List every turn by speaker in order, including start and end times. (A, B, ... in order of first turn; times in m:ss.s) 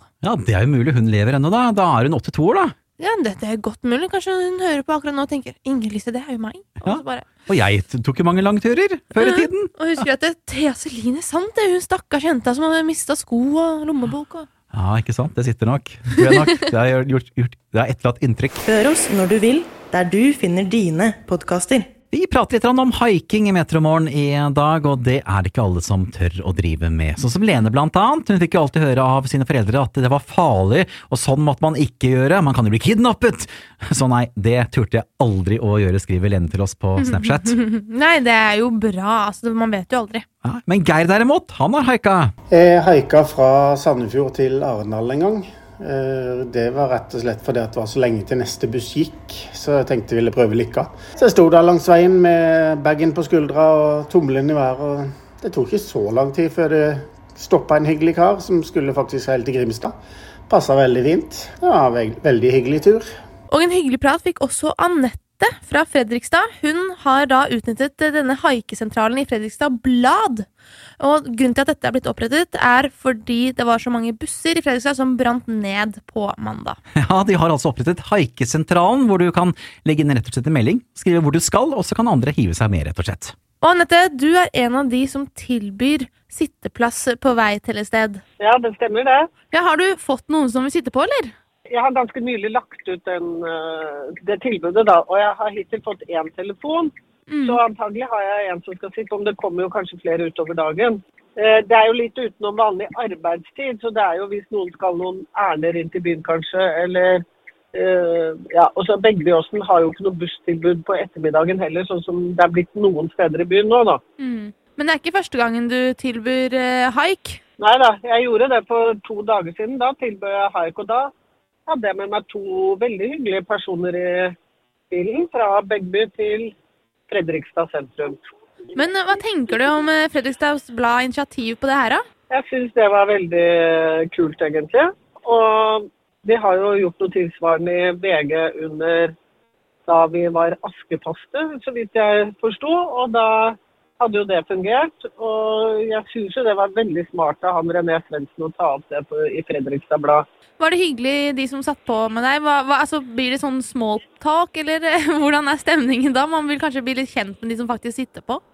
0:00.2-0:02.7 A
0:03.0-0:07.4 B
0:06.8-0:09.7 A
0:09.2-0:14.5 B
0:14.7-0:18.6 A
0:16.2-0:16.6 B
0:18.6-0:21.9 C
0:22.1-0:37.5 A
0:37.0-0:40.2 B
0:40.4-0:42.3 A
0:42.5-0:59.9 D
1:00.5-1:03.1 D
1:03.5-1:10.5 B
1:11.0-1:16.8 B
1:17.0-1:23.4 A
1:23.6-1:28.2 B
1:28.4-1:29.3 E
1:29.5-1:31.3 B
1:31.7-1:36.9 E
1:37.3-1:37.6 B
1:37.4-1:54.0 E
1:54.2-1:57.4 B
1:57.6-2:01.1 E
2:01.7-2:04.3 E
2:04.9-2:06.5 E
2:07.1-2:08.2 E
2:08.7-2:12.0 B
2:12.3-2:19.2 E
2:19.9-2:30.2 E
2:30.6-2:38.4 B